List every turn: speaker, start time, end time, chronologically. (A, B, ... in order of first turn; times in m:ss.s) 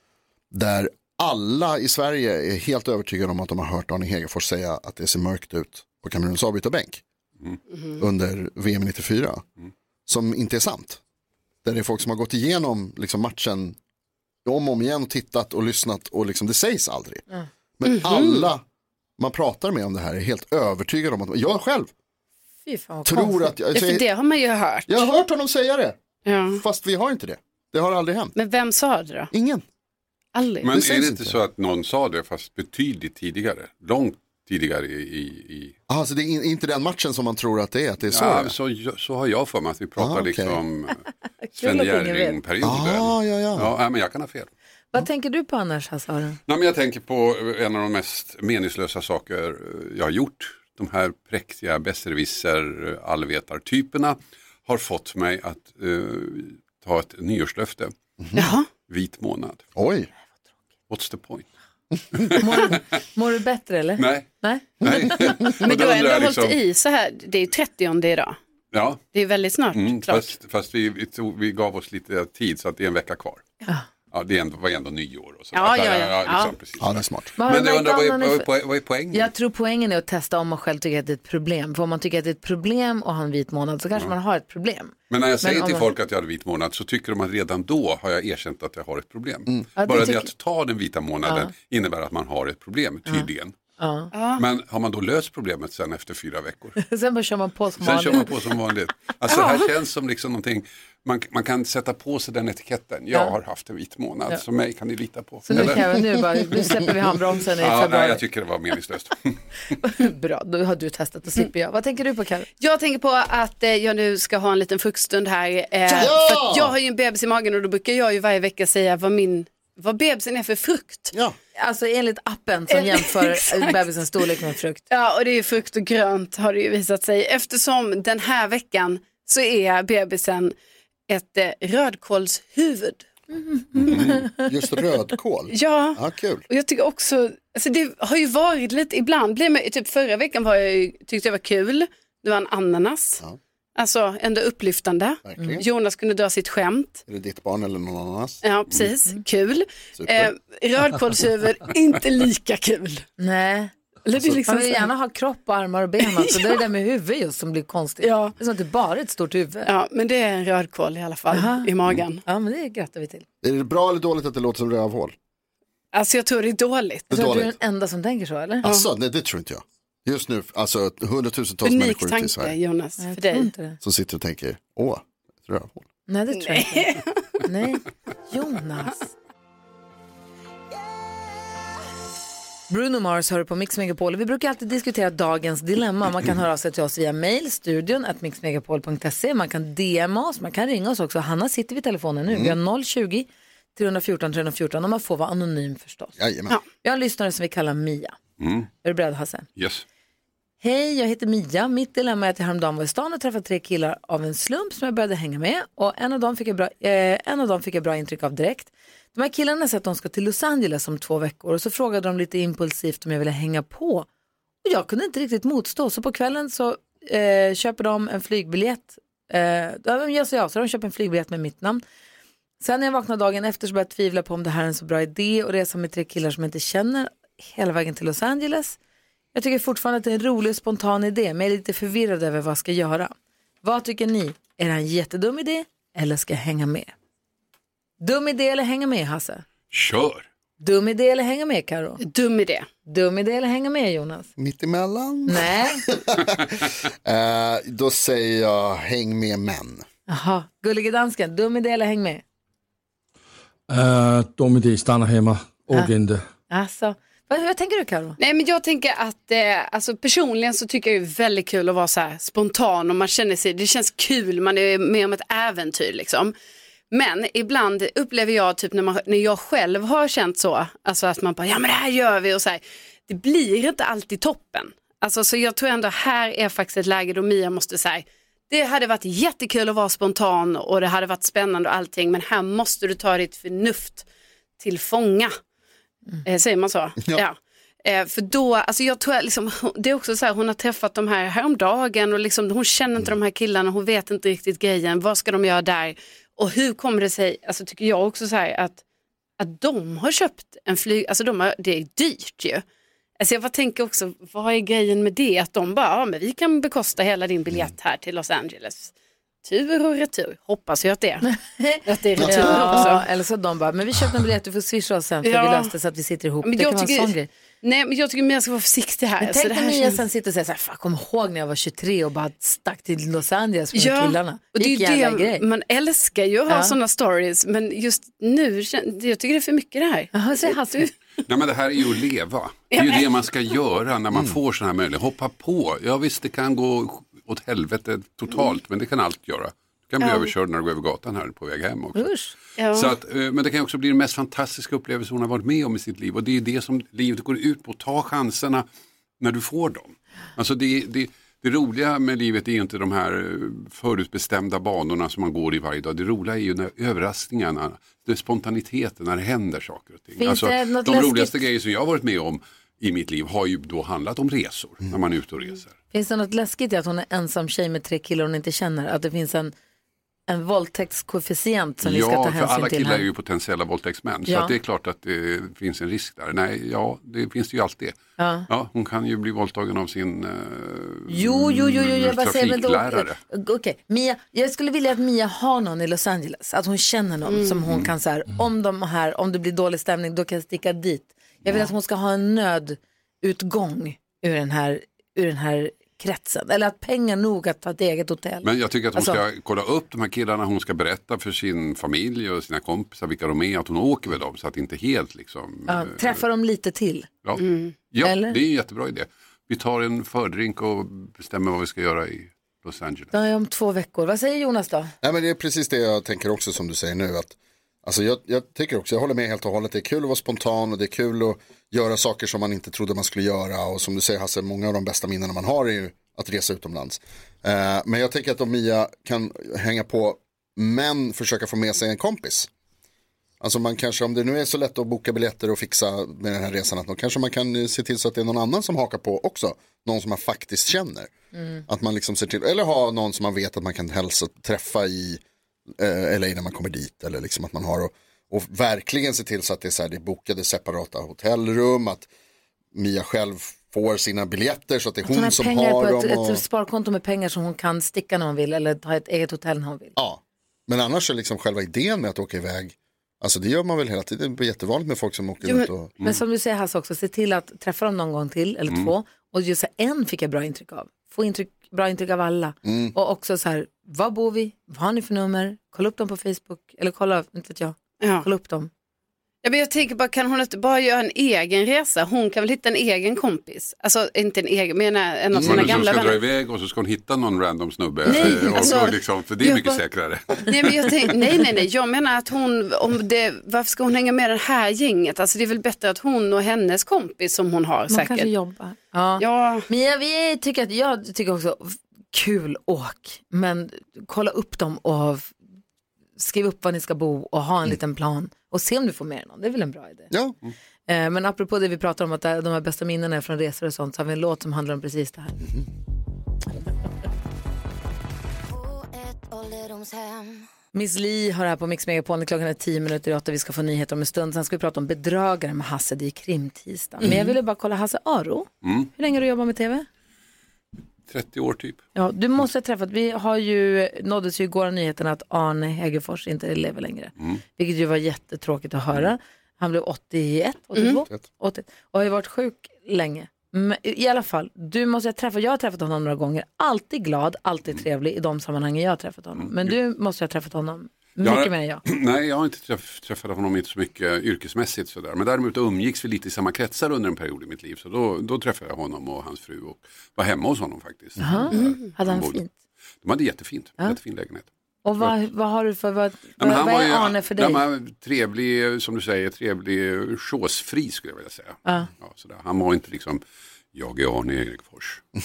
0:00.5-0:07.0 A
0:08.0-0:09.4 A
0:10.1-0:11.0 A
0:11.6-0:13.8 A
0:14.4-0:17.2 A
0:17.8-0:18.6 A
0:17.8-0:18.4 B
0:19.2-0:21.9 A
0:22.6-0:23.5 C
0:23.0-0:24.0 A
0:23.7-0:25.1 B
0:24.9-0:26.0 A
0:26.2-0:26.6 B
0:26.5-0:28.3 A
0:28.4-0:29.3 B
0:29.3-0:29.6 A
0:30.3-0:30.8 B
0:30.6-0:35.8 D
0:30.7-0:31.4 A
0:35.9-0:38.5 A
0:38.1-0:41.0 D
0:40.0-0:40.6 A
0:41.4-0:42.4 C
0:41.6-0:44.5 D
0:42.6-0:43.7 A
0:44.9-0:46.4 C
0:46.5-0:57.9 D
0:58.2-0:58.5 A
0:58.4-0:58.7 B
0:58.8-0:59.6 D
0:59.7-1:00.1 A
1:00.9-1:01.5 D
1:02.1-1:02.8 D
1:02.4-1:05.3 C
1:04.0-1:06.6 D
1:05.6-1:08.4 B
1:08.7-1:09.0 D
1:09.1-1:10.3 B
1:09.7-1:13.4 D
1:14.1-1:19.3 D
1:15.5-1:16.5 B
1:16.8-1:17.3 A
1:17.4-1:18.5 C
1:19.1-1:25.9 C
1:25.1-1:33.6 D
1:29.8-1:30.3 C
1:31.2-1:31.5 C
1:33.1-1:34.1 C
1:34.1-1:34.4 B
1:34.4-1:36.8 D
1:36.8-1:38.4 C
1:37.8-1:45.8 D
1:45.4-1:48.2 C
1:47.6-1:49.4 D
1:49.8-1:52.5 C
1:52.6-2:01.1 B
1:55.9-1:56.1 C
1:56.0-1:56.7 A
2:01.6-2:04.8 C
2:02.7-2:04.2 B
2:04.9-2:10.5 B
2:11.1-2:13.1 B
2:13.3-2:14.4 C
2:13.8-2:14.2 D
2:13.9-2:16.4 A
2:15.5-2:23.2 B
2:23.8-2:27.0 B
2:25.2-2:25.6 A
2:27.1-2:28.4 A
2:28.4-2:33.0 B
2:30.0-2:30.3 A
2:33.2-2:33.7 C
2:34.0-2:34.9 B
2:34.4-2:39.7 C
2:36.2-2:36.5 B
2:38.0-2:38.3 B
2:39.6-2:42.2 B
2:41.3-2:41.7 C
2:42.2-2:43.2 C
2:43.4-2:45.1 A
2:45.9-2:47.1 B
2:47.1-2:47.5 A
2:47.1-2:48.6 C
2:48.6-2:52.5 A
2:51.6-2:53.5 B
2:53.0-2:53.8 C
2:53.8-2:55.9 A
2:56.1-2:59.1 C
2:56.4-2:57.2 B
3:02.7-3:16.1 C
3:12.3-3:12.6 A
3:16.2-3:16.6 A
3:16.8-3:18.2 C
3:18.4-3:18.7 D
3:18.8-3:19.5 C
3:19.6-3:19.8 D
3:20.6-3:34.1 C
3:34.6-3:41.8 C
3:42.6-3:48.8 C
3:49.3-3:56.9 C
3:58.0-3:59.4 C
3:59.7-4:00.3 D
4:00.6-4:02.0 C
4:02.0-4:02.7 B
4:02.8-4:04.3 C
4:04.4-4:09.8 A
4:05.3-4:05.8 C
4:10.1-4:12.2 C
4:13.7-4:16.2 E
4:16.5-4:18.2 C
4:18.2-4:26.3 B
4:26.9-4:44.0 B
4:44.6-4:45.3 B
4:46.2-4:58.8 B
4:59.4-5:02.6 B
5:03.2-5:08.9 B
5:09.4-5:11.3 B
5:11.2-5:17.3 C
5:11.8-5:13.0 B
5:12.2-5:12.9 A
5:15.2-5:15.7 B
5:16.4-5:20.0 B
5:19.2-5:25.4 C
5:23.7-5:30.9 B
5:26.5-5:26.7 C
5:30.1-5:30.9 C
5:31.2-5:42.1 D
5:32.7-5:33.1 B
5:40.0-5:40.3 B
5:41.9-5:42.3 C
5:42.6-5:42.9 B
5:42.7-5:48.6 D
5:49.2-6:05.7 D
6:00.2-6:01.4 C
6:05.9-6:09.5 C
6:10.3-6:13.1 C
6:11.8-6:23.2 D
6:14.3-6:14.5 C
6:18.2-6:18.5 C
6:21.1-6:39.2 C
6:27.3-6:27.6 B
6:38.4-6:46.2 D
6:45.7-6:47.1 C
6:47.2-6:53.1 D
6:47.4-6:47.7 B
6:48.0-6:48.4 C
6:53.1-6:54.9 C
6:55.0-7:12.5 A
7:13.4-7:21.1 A
7:21.6-7:25.2 A
7:25.7-7:32.1 A
7:32.7-7:36.4 A
7:35.0-7:39.9 C
7:40.0-7:45.9 A
7:46.0-7:58.7 C
7:52.6-7:52.9 A
7:58.0-7:58.2 B
7:59.4-8:06.2 B
8:05.3-8:11.2 D
8:05.4-8:05.7 A
8:08.0-8:08.9 C
8:08.1-8:09.8 B
8:10.4-8:18.3 B
8:17.9-8:25.3 C
8:19.2-8:19.7 B
8:26.2-8:30.1 C
8:30.1-8:30.4 A
8:30.9-8:35.4 C
8:40.7-8:49.9 C
8:48.6-8:48.9 D
8:51.1-8:51.8 D
8:51.9-9:11.8 C
9:09.4-9:09.7 D
9:11.2-9:22.4 D
9:21.2-9:22.5 C
9:21.5-9:21.8 B
9:23.0-9:24.5 D
9:24.8-9:27.6 C
9:26.4-9:33.2 D
9:33.7-9:35.0 D